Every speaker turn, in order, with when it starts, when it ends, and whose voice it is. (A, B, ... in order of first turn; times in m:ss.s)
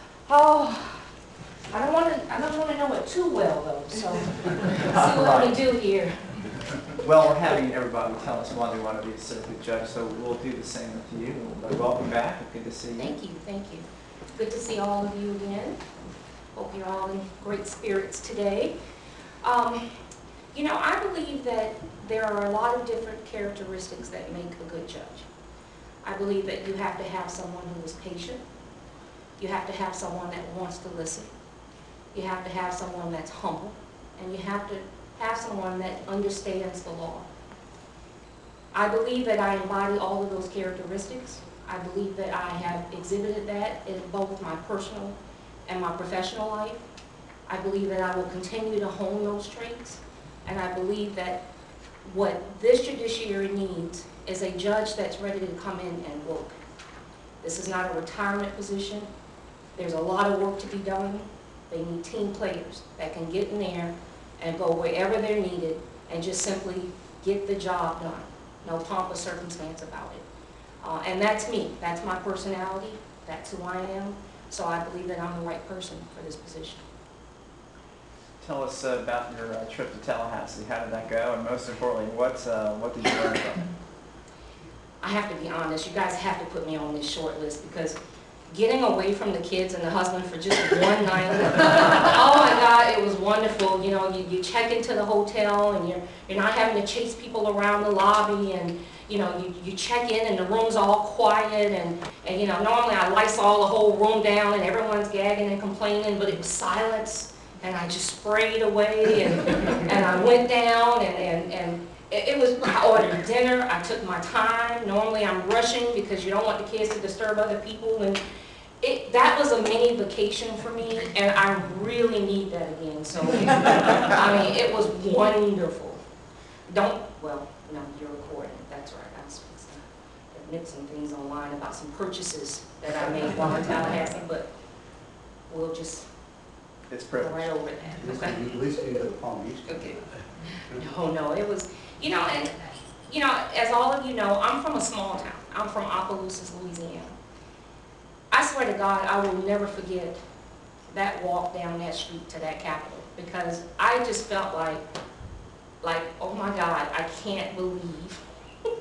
0:00.3-0:01.1 A
0:01.7-0:06.4 A
0:04.9-0:05.6 B
0:07.0-0:13.2 B
0:13.0-0:15.8 A
0:16.5-0:18.7 A
0:19.4-0:19.8 A
0:20.5-0:25.3 A
0:26.0-0:28.4 A
0:29.4-0:31.3 A
0:32.1-0:37.2 A
0:38.7-0:45.2 A
0:45.7-0:46.8 A
0:47.5-0:51.4 A
0:52.0-0:56.5 A
0:57.4-0:59.1 A
0:59.8-1:10.2 A
1:10.8-1:16.8 A
1:18.4-1:23.7 B
1:25.0-1:28.0 A
1:28.5-1:58.2 A
1:58.8-2:06.0 A
2:06.7-2:14.5 A
2:15.5-2:16.1 A
2:16.9-2:17.5 B
2:17.2-2:19.1 A
2:18.0-2:20.8 C
2:19.6-2:27.1 A
2:28.3-2:30.2 A
2:30.9-2:34.8 A
2:35.8-2:38.2 A